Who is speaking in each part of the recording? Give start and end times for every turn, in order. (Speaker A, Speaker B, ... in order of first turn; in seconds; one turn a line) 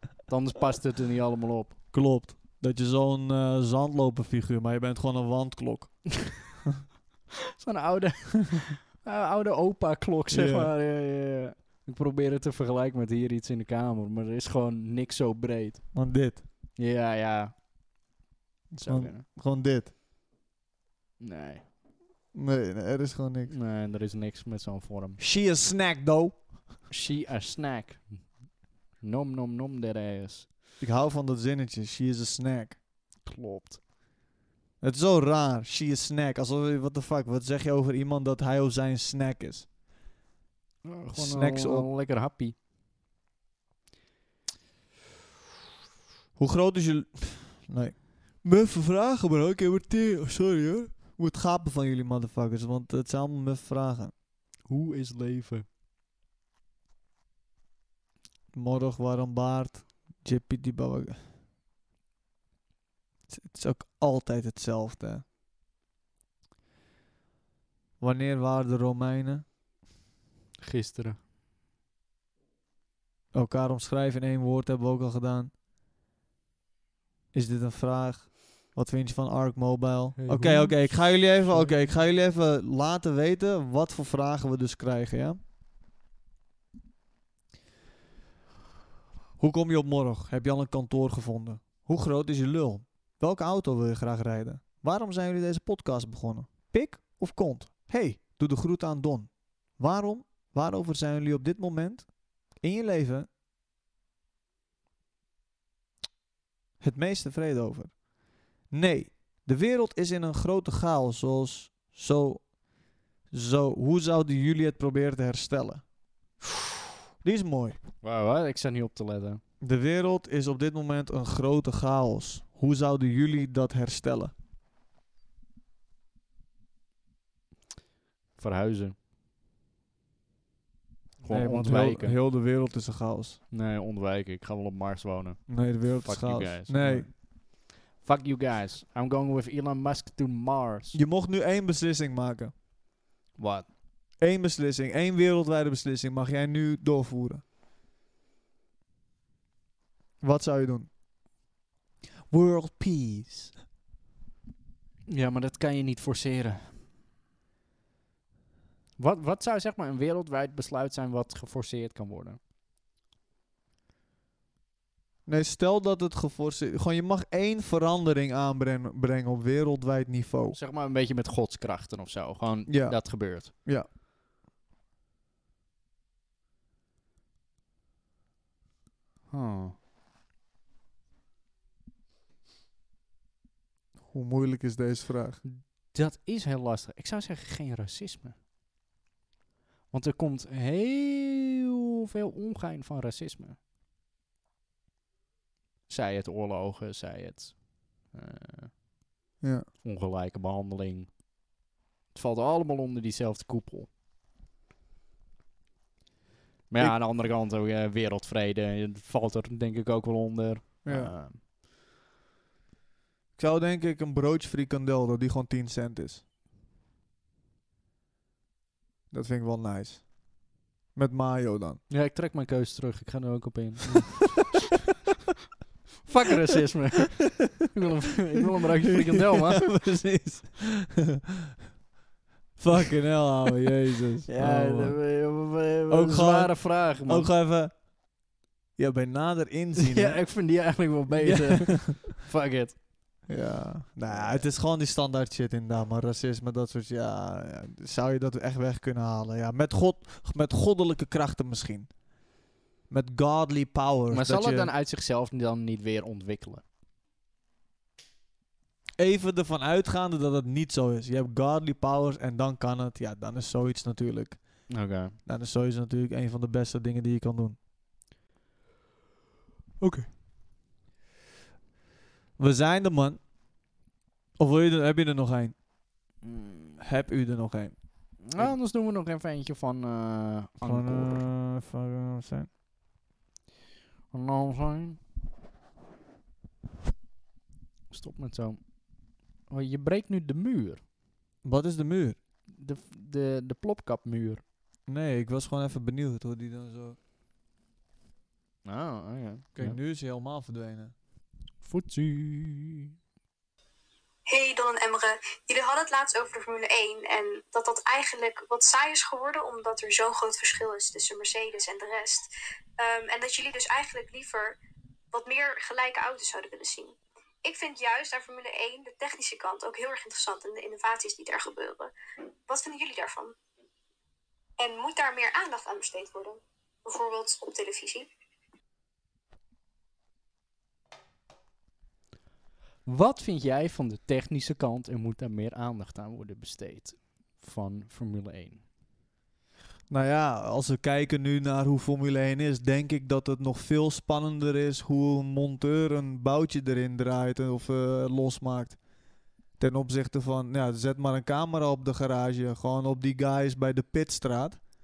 Speaker A: 0.3-1.8
Speaker B: 1.9-6.7
Speaker A: 7.6-15.8
Speaker B: 10.3-10.7
Speaker B: 15.9-16.4
Speaker A: 16.8-17.5
Speaker B: 18.7-19.9
Speaker A: 18.8-19.2
Speaker A: 21.2-21.7
Speaker B: 22.3-23.5
Speaker A: 23.5-25.2
Speaker B: 25.2-26.5
Speaker A: 26.9-30.5
Speaker B: 30.8-32.8
Speaker A: 33.2-33.8
Speaker B: 34.8-39.7
Speaker A: 40.8-42.5
Speaker B: 41.1-41.9
Speaker B: 46.4-54.1
Speaker A: 54.7-55.6
Speaker B: 58.5-61.2
Speaker B: 63.3-65.2
Speaker B: 68.0-69.4
Speaker A: 70.6-71.2
Speaker B: 73.3-75.5
Speaker B: 77.3-85.4
Speaker A: 80.2-81.8
Speaker B: 89.4-103.3
Speaker B: 106.8-108.0
Speaker B: 108.6-112.5
Speaker B: 113.3-115.8
Speaker B: 117.2-117.8
Speaker A: 118.0-119.4
Speaker B: 119.6-124.3
Speaker A: 128.3-128.9
Speaker A: 131.2-132.2
Speaker B: 131.3-133.4
Speaker A: 133.5-141.0
Speaker B: 135.5-137.1
Speaker B: 140.9-142.5
Speaker A: 143.3-143.7
Speaker B: 144.2-147.4
Speaker B: 150.2-150.9
Speaker B: 152.3-153.5
Speaker A: 155.1-156.8
Speaker A: 159.0-162.4
Speaker B: 165.2-170.6
Speaker A: 170.5-173.5
Speaker B: 172.7-173.9
Speaker A: 179.3-179.7
Speaker B: 184.1-185.4
Speaker A: 185.4-188.4
Speaker A: 189.9-193.6
Speaker A: 195.9-198.7
Speaker B: 199.4-199.7
Speaker A: 199.8-201.2
Speaker A: 202.1-203.9
Speaker A: 206.7-211.4
Speaker B: 210.8-211.1
Speaker B: 213.4-216.2
Speaker B: 219.1-220.1
Speaker B: 220.9-221.8
Speaker A: 221.9-224.4
Speaker A: 226.0-229.7
Speaker B: 228.8-231.2
Speaker B: 232.6-235.0
Speaker A: 234.3-237.3
Speaker B: 235.9-237.9
Speaker B: 238.8-240.2
Speaker A: 239.8-242.8
Speaker B: 241.2-242.0
Speaker B: 243.3-251.9
Speaker A: 244.1-244.4
Speaker B: 252.9-254.7
Speaker A: 254.1-256.6
Speaker B: 259.0-267.6
Speaker A: 264.7-265.2
Speaker A: 269.8-270.1
Speaker B: 272.4-273.2
Speaker B: 274.4-275.6
Speaker A: 276.2-276.8
Speaker B: 276.8-278.5
Speaker A: 278.2-281.2
Speaker B: 280.6-282.5
Speaker A: 284.1-285.0
Speaker A: 287.9-288.6
Speaker A: 289.5-290.8
Speaker B: 291.4-292.2
Speaker A: 292.5-294.4
Speaker B: 294.9-296.9
Speaker A: 298.6-299.8
Speaker B: 299.6-300.9
Speaker A: 301.6-302.9
Speaker C: 304.3-314.6
Speaker C: 315.1-321.9
Speaker C: 322.5-323.3
Speaker C: 324.6-328.1
Speaker A: 332.9-338.6
Speaker B: 339.9-348.8
Speaker B: 349.6-354.6